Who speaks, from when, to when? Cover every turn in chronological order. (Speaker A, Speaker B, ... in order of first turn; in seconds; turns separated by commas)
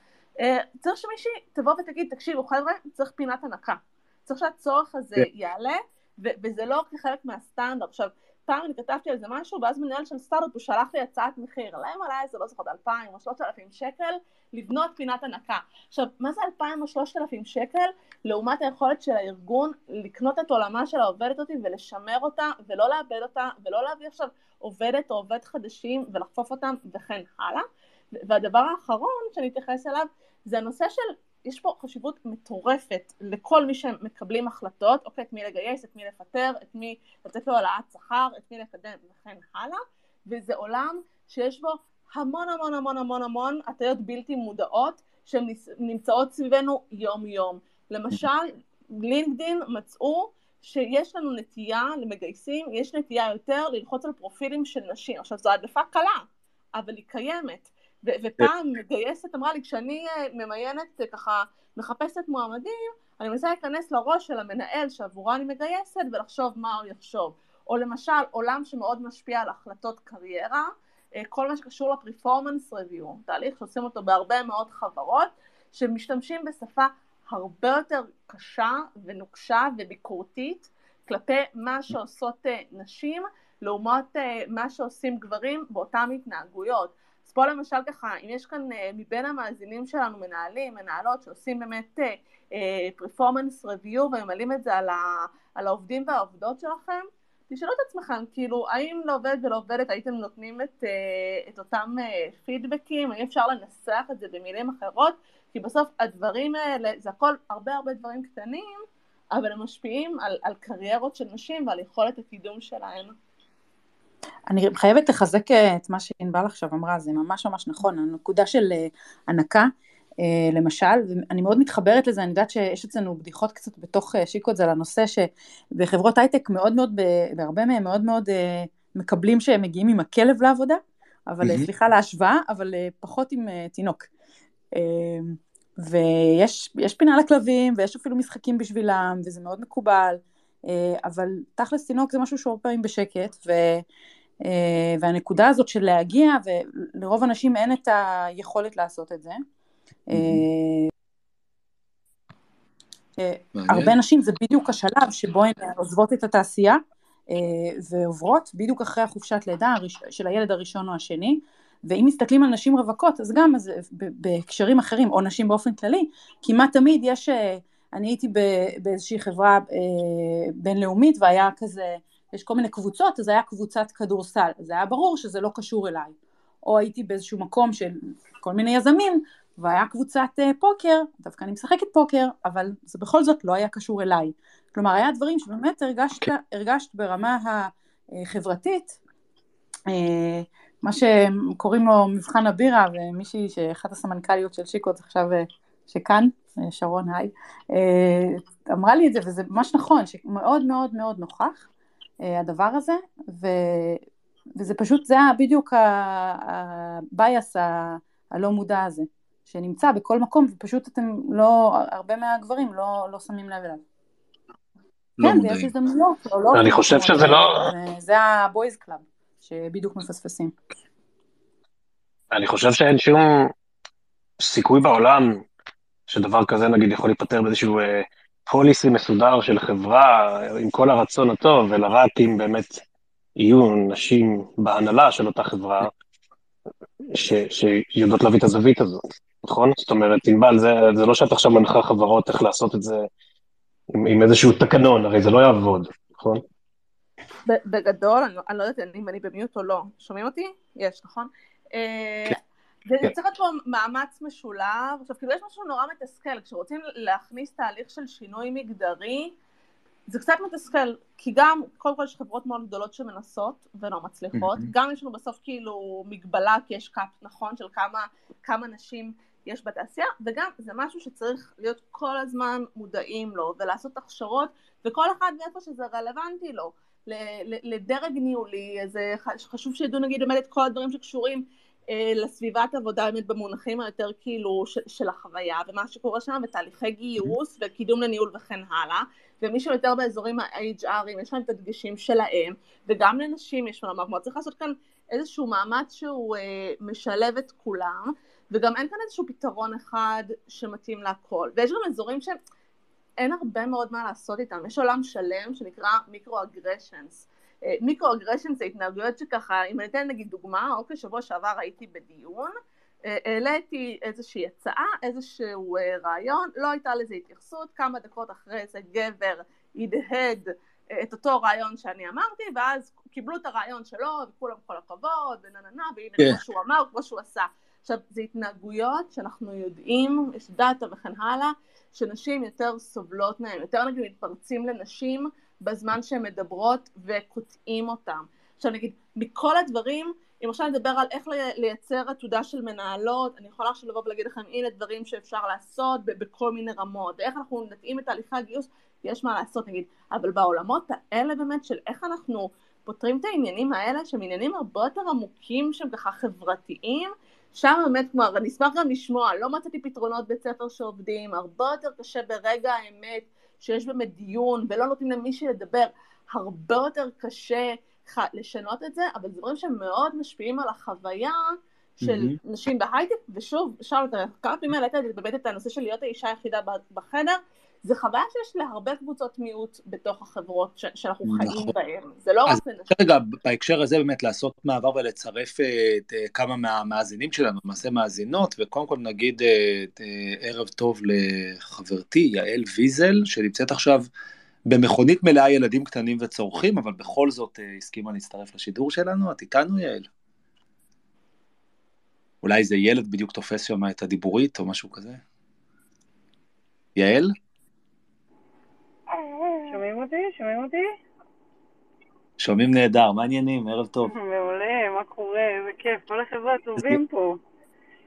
Speaker A: 0.4-27.6, Speaker A: 28.2-56.2, Speaker A: 56.8-70.7, Speaker A: 71.2-95.0, Speaker A: 95.5-108.7, Speaker A: 109.3-113.1, Speaker B: 114.5-119.7, Speaker B: 120.2-134.1, Speaker C: 131.4-131.7, Speaker B: 134.7-143.8, Speaker B: 144.4-149.4, Speaker B: 150.1-150.9, Speaker C: 150.1-150.4, Speaker B: 153.2-189.0, Speaker C: 153.6-153.9, Speaker B: 189.9-201.7, Speaker B: 202.2-204.0, Speaker B: 204.6-213.8, Speaker C: 215.2-215.7, Speaker B: 215.2-220.5, Speaker D: 216.5-217.7, Speaker D: 222.3-223.5, Speaker D: 224.4-225.4, Speaker D: 226.1-232.8, Speaker D: 233.4-235.9, Speaker D: 237.1-243.1, Speaker D: 243.9-246.4, Speaker A: 247.4-259.3, Speaker A: 260.1-298.0, Speaker C: 264.3-264.7, Speaker A: 298.5-302.4, Speaker A: 303.2-312.5, Speaker A: 313.1-320.4, Speaker A: 320.9-371.4, Speaker C: 372.0-372.4, Speaker A: 372.0-382.9, Speaker C: 381.2-381.7, Speaker C: 382.5-394.1, Speaker C: 394.6-400.1, Speaker C: 402.4-405.2, Speaker C: 406.9-407.3, Speaker E: 409.6-410.9, Speaker C: 412.4-414.1, Speaker E: 414.1-417.4